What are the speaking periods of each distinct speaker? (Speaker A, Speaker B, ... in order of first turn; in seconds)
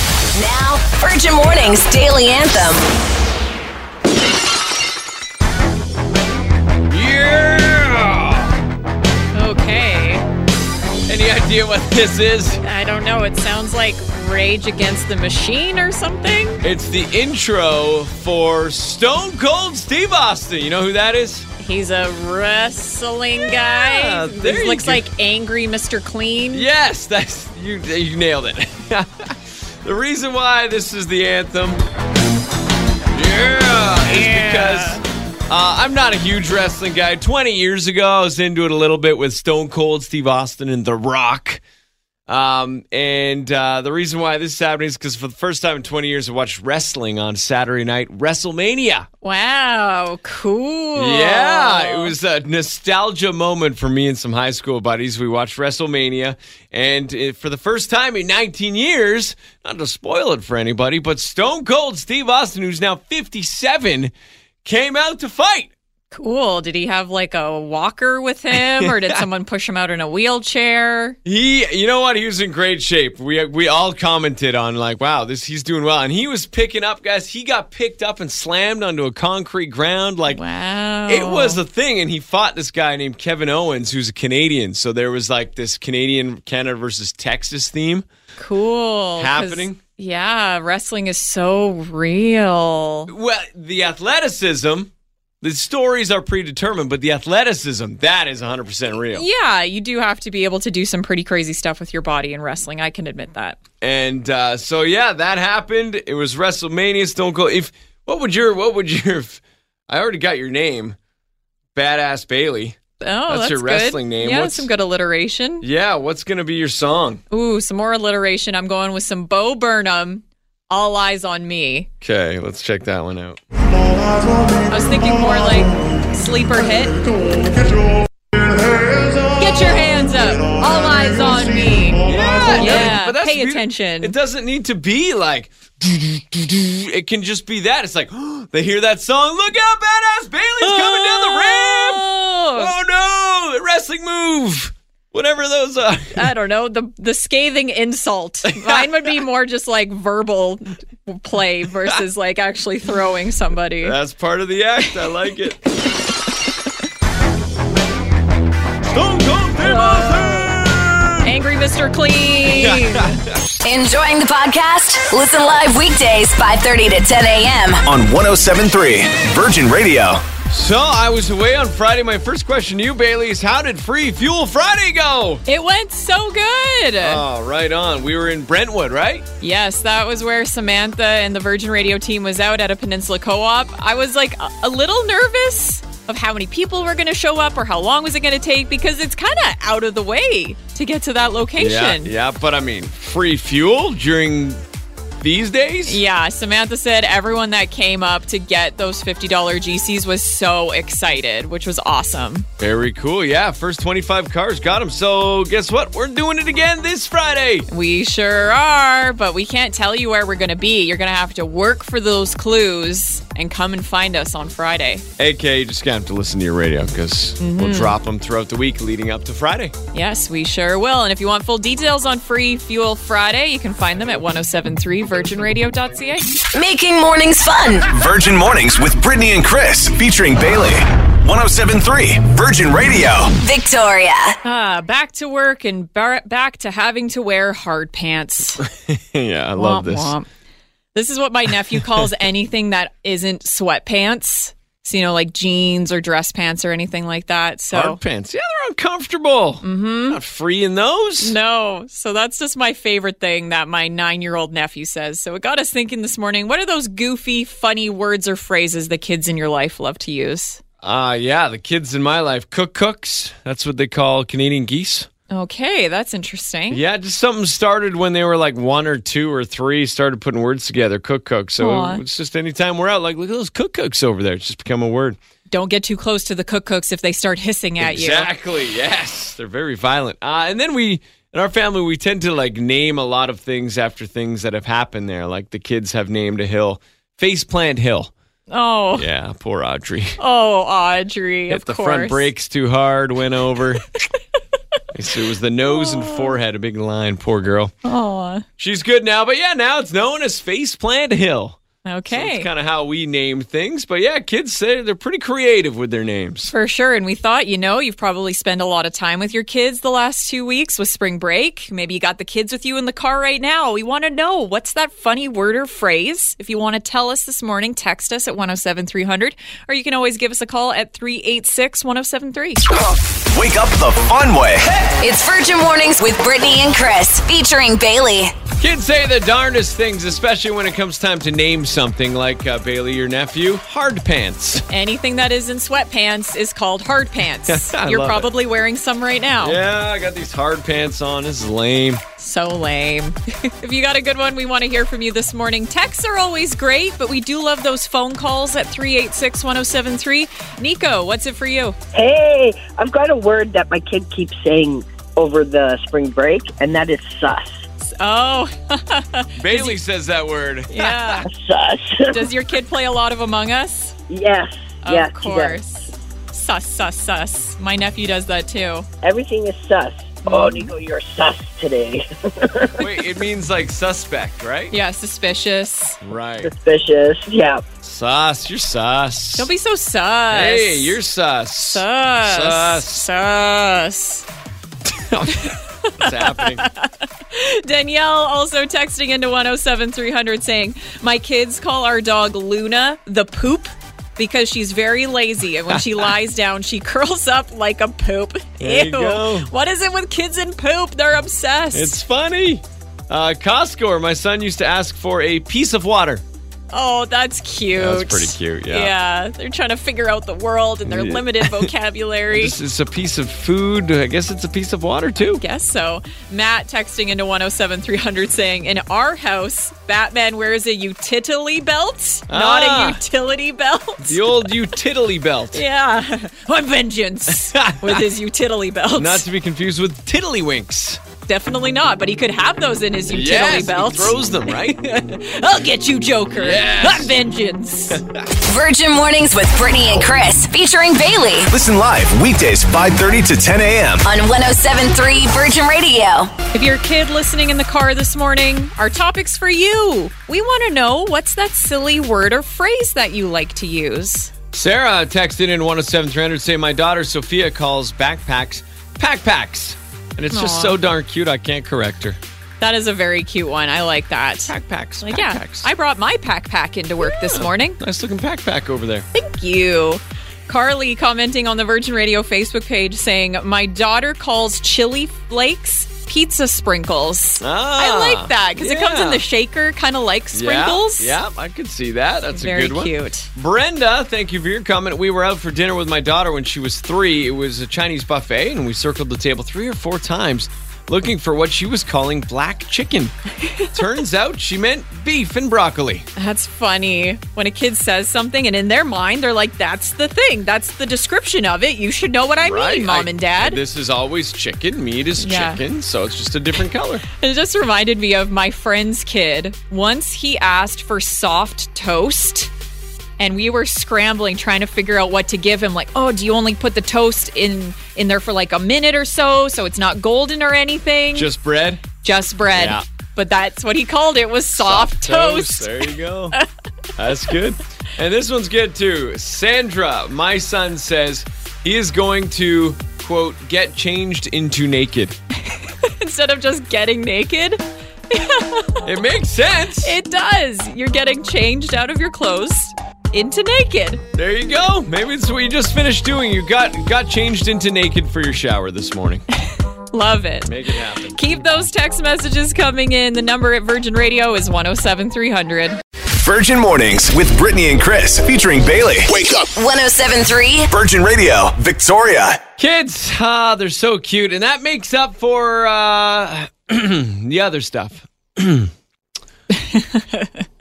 Speaker A: 0.3-2.8, 163.6-167.8, 226.5-227.9, 233.4-234.3, 325.0-328.3, 438.4-441.5, 444.0-446.3, 559.4-560.7
Speaker B: 6.9-8.5, 11.1-12.6, 16.6-21.5, 23.5-25.0, 26.5-31.8, 33.1-41.6, 42.3-49.1, 51.0-64.1, 64.6-65.7, 68.5-69.2, 71.2-80.4, 81.1-88.0, 89.2-89.8, 93.1-94.9, 95.4-99.2, 103.8-111.0, 111.7-114.7, 115.6-117.2, 122.0-123.4, 132.0-146.3, 148.5-149.2, 153.8-155.6, 158.9-161.3, 162.5-163.4, 170.5-175.4, 177.0-179.2, 191.6-194.6, 195.2-196.0, 202.6-207.7, 215.2-219.7, 238.6-240.1, 247.7-251.3, 260.8-265.1, 266.7-275.2, 277.8-288.1, 288.9-290.2, 291.5-293.9, 294.9-297.7, 298.6-306.5, 328.6-334.6, 337.5-338.3, 339.4-342.0, 359.4-361.2, 372.8-374.7, 376.0-376.5, 377.8-379.5, 380.3-383.1, 384.9-386.6, 395.7-396.1, 398.6-399.5, 401.7-406.2, 407.8-408.9, 410.9-411.7, 412.3-415.4, 422.3-423.0, 424.0-425.6, 427.3-428.0, 428.9-431.0, 433.1-434.8, 436.3-437.1, 437.9-438.3, 454.5-462.2, 464.5-465.7, 467.0-469.1, 477.4-479.2, 480.3-493.1, 493.7-496.1, 502.4-507.0, 521.1-521.8, 522.5-522.8, 524.5-526.4, 527.0-535.2, 538.8-539.9, 544.1-549.2, 550.4-551.2, 562.6-568.7
Speaker C: 9.3-10.2, 12.6-16.6, 21.6-26.7, 34.1-35.0, 49.2-52.1, 66.1-71.2, 80.3-81.6, 88.4-93.1, 99.1-103.6, 113.0-115.6, 117.3-121.9, 124.7-127.3, 129.4-132.0, 132.6-134.1, 140.6-142.7, 146.1-153.9, 159.6-160.5, 161.2-163.2, 175.5-177.2, 179.4-192.1, 195.9-202.4, 207.7-215.0, 217.4-217.9, 219.9-226.3, 234.4-238.6, 239.6-240.3, 240.9-248.0, 249.6-250.2, 251.2-260.6, 265.3-266.8, 271.6-272.0, 275.5-278.3, 288.5-289.1, 290.2-292.2, 295.7-296.3, 297.8-298.4, 301.8-302.5, 306.5-322.6, 334.7-339.6, 342.2-351.8, 357.8-359.7, 360.7-361.3, 362.1-363.9, 364.8-368.9, 370.3-370.7, 374.7-376.0, 379.4-380.9, 381.7-384.2, 385.5-401.9, 406.7-412.5, 415.3-424.5, 425.5-429.2, 431.3-438.0, 446.5-454.3, 460.3-460.7, 462.6-467.8, 469.1-481.1, 482.3-483.3, 496.1-503.6, 505.2-505.6, 507.2-512.5, 513.2-521.3, 522.0-525.8, 535.5-538.9, 539.8-544.0, 549.9-555.8, 569.5-570.3
Speaker D: 167.8-170.3, 227.9-233.3, 322.7-324.9, 441.5-444.1, 556.1-559.4, 560.7-562.4
Speaker E: 351.9-357.6, 361.2-362.3, 364.1-365.6, 369.0-372.9, 376.4-377.6